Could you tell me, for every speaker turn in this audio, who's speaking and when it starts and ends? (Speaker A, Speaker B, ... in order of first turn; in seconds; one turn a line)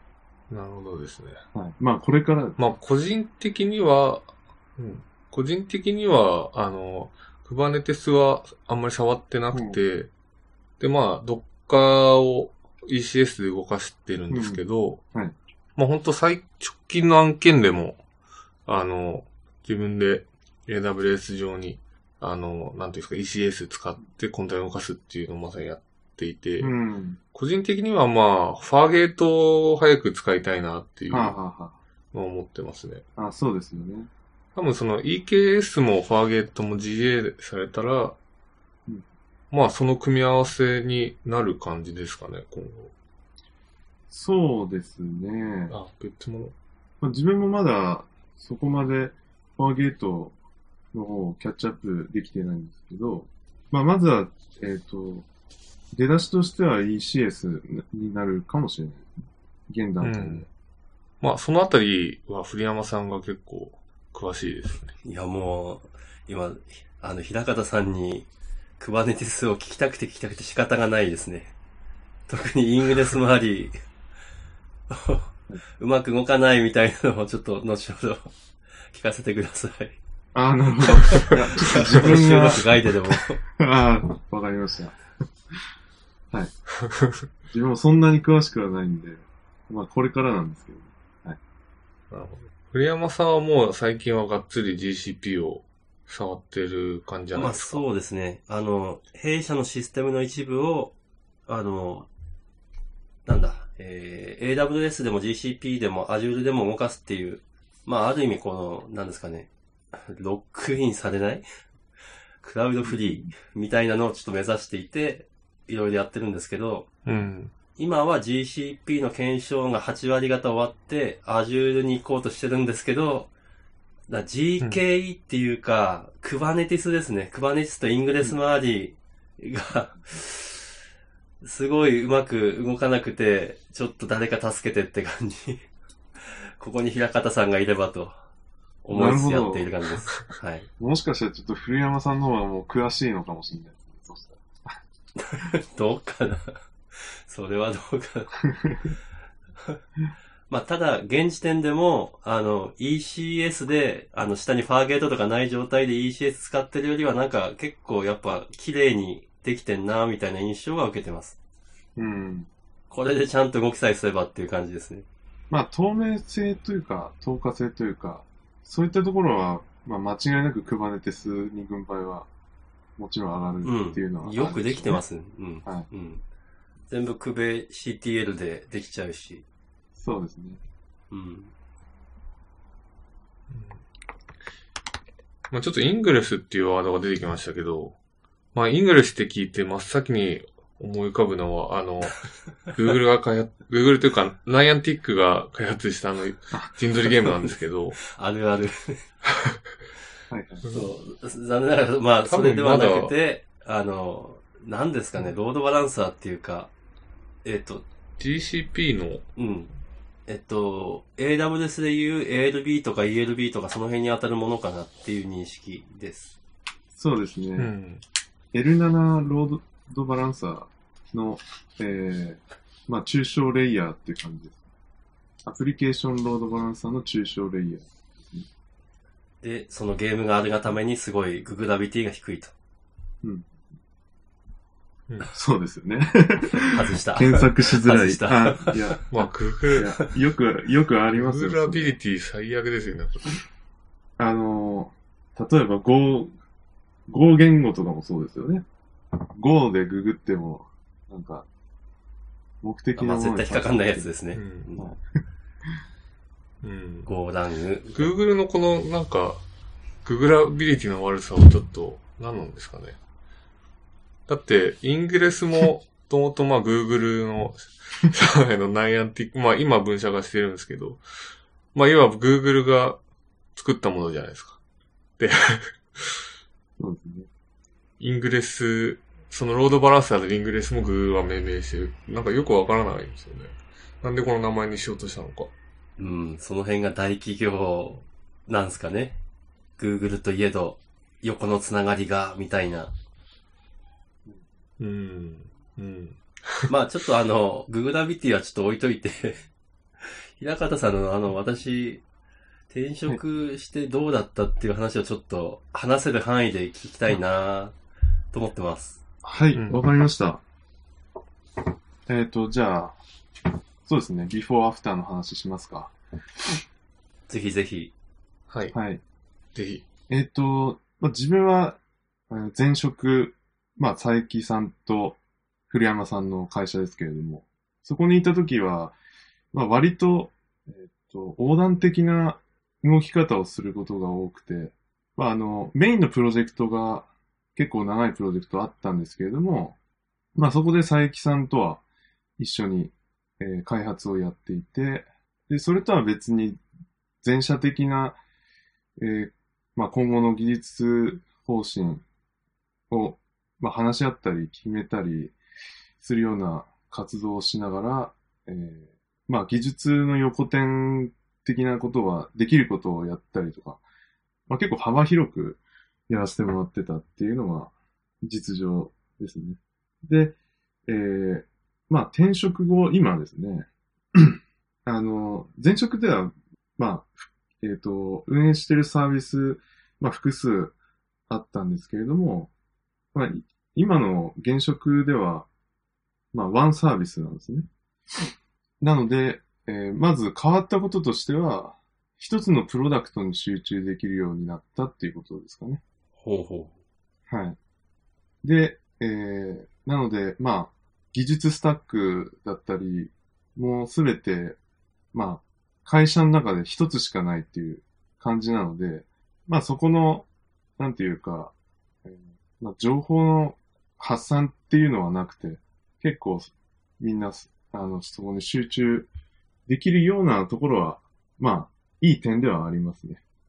Speaker A: 0.5-1.4
Speaker B: 1.5-2.6
Speaker A: 2.6-4.2
Speaker A: 4.8-10.1
Speaker B: 9.5-9.8
Speaker A: 10.8-15.0
Speaker B: 14.3-15.3
Speaker A: 15.8-18.0
Speaker A: 18.7-26.7
Speaker B: 26.6-27.2
Speaker A: 27.3-31.4
Speaker B: 31.1-31.8
Speaker A: 32.1-33.0
Speaker B: 33.2-34.1
Speaker A: 34.5-38.2
Speaker A: 39.5-42.9
Speaker B: 44.1-45.8
Speaker A: 45.7-46.5
Speaker B: 47.0-50.3
Speaker B: 50.9-55.3
Speaker B: 55.9-59.1
Speaker B: 59.7-60.5
Speaker A: 60.0-60.5
Speaker A: 61.2-64.9
Speaker C: 65.0-68.3
Speaker C: 68.8-71.5
Speaker C: 72.3-73.7
Speaker C: 74.9-78.3
Speaker C: 78.9-80.0
Speaker B: 80.3-82.8
Speaker C: 80.9-83.4
Speaker B: 83.6-85.0
Speaker A: 86.8-87.2
Speaker B: 87.5-91.4
Speaker A: 92.1-97.8
Speaker C: 97.3-100.9
Speaker C: 101.5-102.1
Speaker C: 103.3-111.5
Speaker C: 112.4-116.9
Speaker B: 112.8-113.3
Speaker A: 117.0-117.5
Speaker C: 117.8-123.3
Speaker C: 124.1-130.7
Speaker C: 131.4-135.6
Speaker C: 136.2-138.1
Speaker C: 138.8-140.7
Speaker B: 138.9-139.7
Speaker B: 140.8-144.7
Speaker C: 145.2-148.5
Speaker B: 148.6-148.9
Speaker C: 150.5-161.4
Speaker B: 162.0-162.5
Speaker C: 162.9-165.1
Speaker B: 165.5-172.3
Speaker B: 173.0-175.0
Speaker C: 173.6-176.2
Speaker C: 176.9-179.4
Speaker B: 180.0-180.6
Speaker C: 181.1-181.5
Speaker A: 183.5-183.8
Speaker A: 185.5-188.0
Speaker A: 188.5-198.0
Speaker C: 198.0-199.0
Speaker B: 200.3-200.7
Speaker C: 200.7-206.7
Speaker A: 202.2-203.1
Speaker C: 207.4-207.8
Speaker A: 208.2-209.2
Speaker C: 209.4-209.7
Speaker C: 210.3-216.3
Speaker B: 216.9-217.7
Speaker A: 217.6-218.0
Speaker B: 218.5-224.6
Speaker B: 225.4-228.5
Speaker C: 229.4-232.5
Speaker B: 233.2-233.5
Speaker B: 235.3-239.0
Speaker C: 236.6-239.0
Speaker A: 239.1-239.9
Speaker B: 239.8-242.0
Speaker A: 241.1-243.4
Speaker B: 244.2-246.3
Speaker B: 247.1-248.7
Speaker B: 249.4-251.5
Speaker B: 252.6-254.1
Speaker C: 253.0-254.9
Speaker A: 254.3-254.7
Speaker A: 256.6-257.1
Speaker C: 257.1-258.1
Speaker A: 257.9-259.4
Speaker A: 260.0-263.0
Speaker A: 264.3-271.0
Speaker A: 271.7-273.0
Speaker A: 273.6-274.6
Speaker A: 275.2-276.2
Speaker B: 276.8-277.3
Speaker A: 278.0-285.5
Speaker C: 286.0-289.2
Speaker C: 289.8-292.9
Speaker A: 294.8-296.7
Speaker C: 296.7-299.4
Speaker C: 300.0-302.0
Speaker C: 302.7-307.8
Speaker C: 308.3-309.0
Speaker B: 309.2-310.4
Speaker A: 309.5-309.8
Speaker B: 312.1-313.0
Speaker B: 313.9-315.9
Speaker C: 317.3-317.9
Speaker A: 318.5-318.8
Speaker B: 318.7-319.0
Speaker A: 319.6-319.8
Speaker B: 320.1-321.8
Speaker B: 322.3-325.2
Speaker B: 325.7-328.9
Speaker B: 329.5-339.8
Speaker B: 340.4-341.8
Speaker B: 342.4-346.6
Speaker B: 347.2-348.2
Speaker B: 349.0-352.0
Speaker B: 352.9-355.4
Speaker B: 356.0-363.8
Speaker B: 364.5-370.4
Speaker B: 370.9-380.8
Speaker B: 381.3-382.5
Speaker B: 383.1-385.5
Speaker B: 386.3-387.7
Speaker B: 388.8-395.8
Speaker C: 396.2-396.7
Speaker B: 397.3-397.6
Speaker B: 398.4-404.6
Speaker B: 405.1-410.3
Speaker B: 410.8-411.5
Speaker B: 412.0-419.1
Speaker B: 419.7-423.2